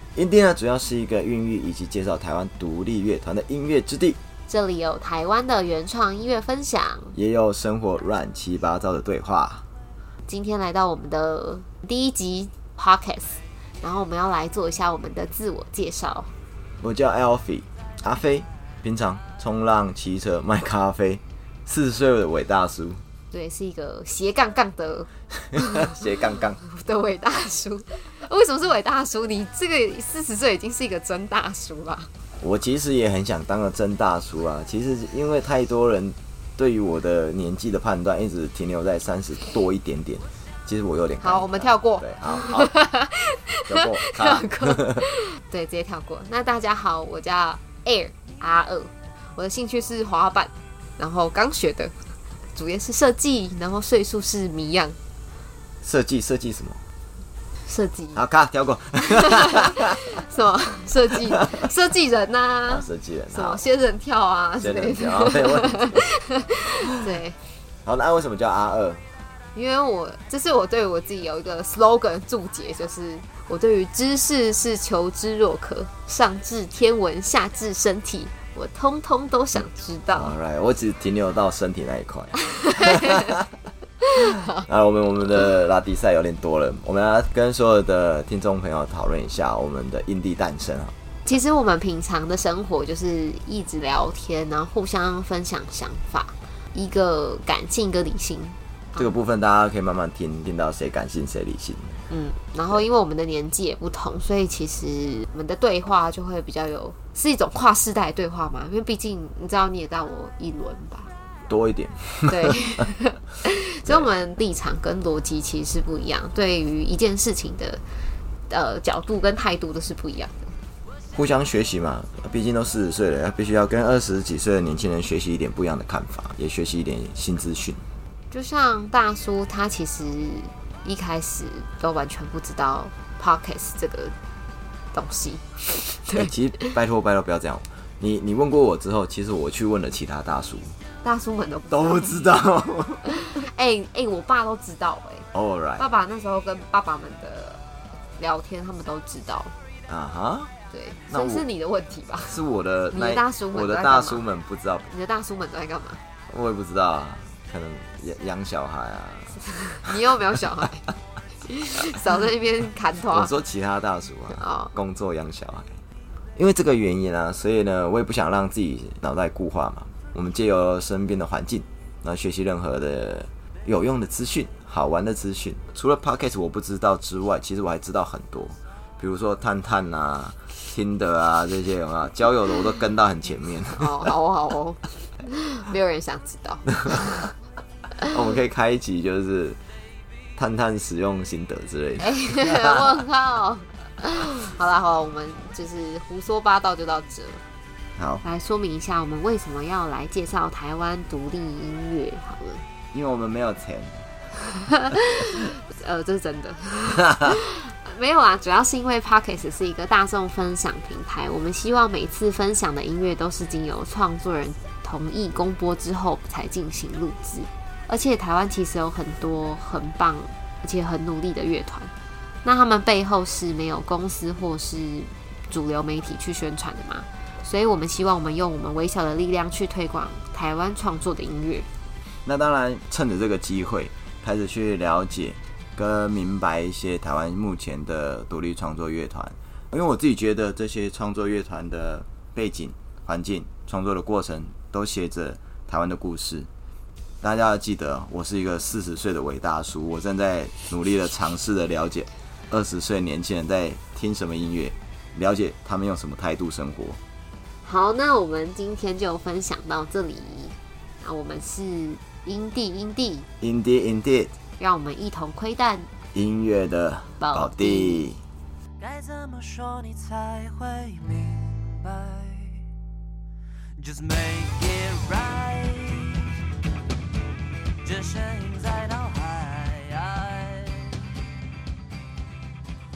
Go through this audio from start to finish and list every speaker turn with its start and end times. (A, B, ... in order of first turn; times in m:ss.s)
0:00.2-0:04.2 A
0:04.5-0:07.2 B
0:07.1-0:09.7 A
0:10.3-0:16.3 B
0:16.8-0:23.0 A
0:23.3-0:26.0 B
0:25.6-0:26.6 A
0:26.6-0:32.1 B
0:32.4-0:42.7 A
0:41.2-0:52.0 B
0:43.7-0:45.0 A
0:52.5-0:55.0 B
0:55.8-0:56.8 A
0:57.6-0:58.2 B
0:58.2-1:00.0 A
0:59.0-1:07.4 B
1:02.7-1:03.6 A
1:04.6-1:06.1 A
1:07.8-1:09.0 A
1:09.6-1:20.3 B
1:20.1-1:23.5 A
1:22.5-1:23.4 B
1:24.0-1:24.6 B
1:24.6-1:31.0 A
1:31.2-1:39.1 B
1:39.0-1:42.0 A
1:42.1-1:51.1 B
1:51.5-1:52.6 A
1:52.3-1:57.8 B
1:58.5-2:00.6 B
2:01.1-2:07.8 A
2:08.3-2:14.2 B
2:14.9-2:16.8 B
2:16.1-2:20.8 A
2:21.0-2:22.2 B
2:21.7-2:23.2 A
2:23.1-2:27.6 B
2:25.3-2:25.8 A
2:28.2-2:29.5 B
2:29.9-2:30.5 A
2:30.7-2:32.4 B
2:31.1-2:31.5 A
2:32.3-2:34.9 A
2:32.9-2:34.2 B
2:34.9-2:36.0 B
2:36.3-2:39.9 A
2:39.4-2:40.9 B
2:41.4-2:43.3 B
2:43.1-2:45.8 A
2:44.4-2:44.7 B
2:46.4-3:04.1 A
3:03.8-3:07.3 B
3:08.1-3:09.6 A
3:10.4-3:12.8 A
3:12.0-3:17.4 B
3:18.0-3:18.2 A
3:18.2-3:22.6 B
3:22.9-3:24.1 A
3:24.5-3:41.9 B
3:42.4-3:51.7 B
3:52.2-4:06.5 A
4:07.2-4:17.0 A
4:17.6-4:23.3 B
4:23.4-4:24.3 A
4:24.6-4:25.9 B
4:26.1-4:28.2 A
4:27.2-4:28.1 B
4:28.8-4:32.7 C
4:33.8-4:36.4 C
4:37.8-4:41.2 C